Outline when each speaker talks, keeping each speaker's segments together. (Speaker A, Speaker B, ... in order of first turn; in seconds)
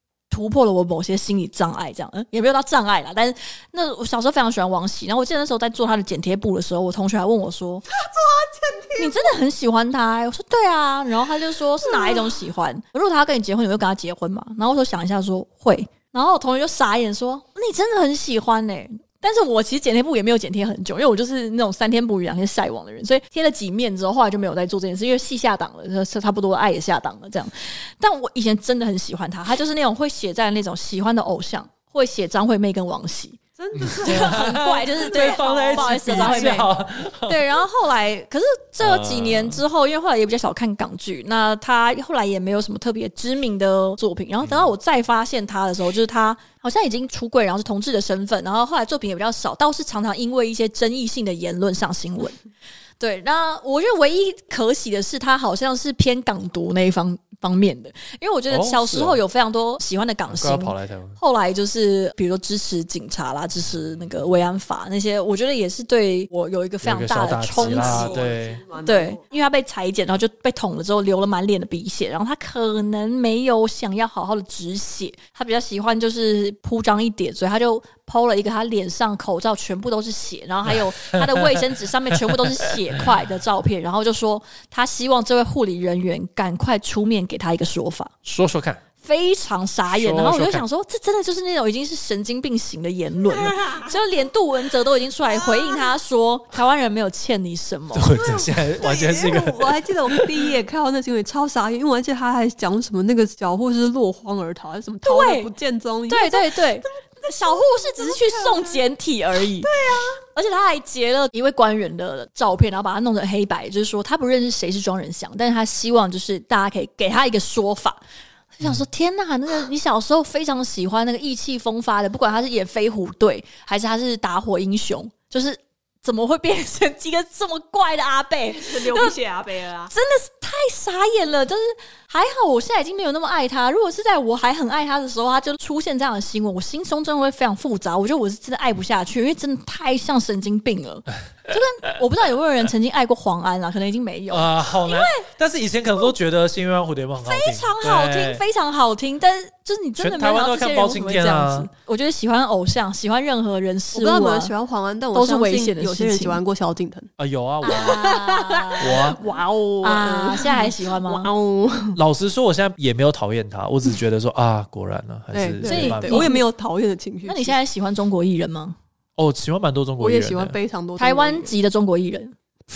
Speaker A: 0.3-7.8, 9.0-33.4, 34.0-36.7, 37.3-52.4, 53.0-68.2, 68.8-88.2, 89.0-98.2, 105.0-105.5, 106.1-109.7, 110.3-118.0, 118.5-129.2, 129.9-145.3, 147.2-154.5, 155.1-156.4, 157.6-161.3, 165.6-166.4, 167.2-168.8, 171.0-172.3
Speaker B: 8.0-9.3, 11.8-12.3, 33.6-36.7, 67.5-69.2, 98.1-108.8, 109.6-110.2, 128.6-129.9, 153.9-157.1, 157.6-162.0, 165.3-167.6, 170.0-171.5
Speaker C: 33.8-37.4, 38.8-39.6, 44.4-44.7, 58.5-59.2, 60.3-61.2, 66.8-68.6, 81.1-81.7, 82.3-83.0, 88.2-88.8, 89.9-90.6, 97.9-100.5, 144.3-148.4, 150.0-151.7, 157.2-158.1, 158.8-159.2, 161.9-166.3, 169.2-170.6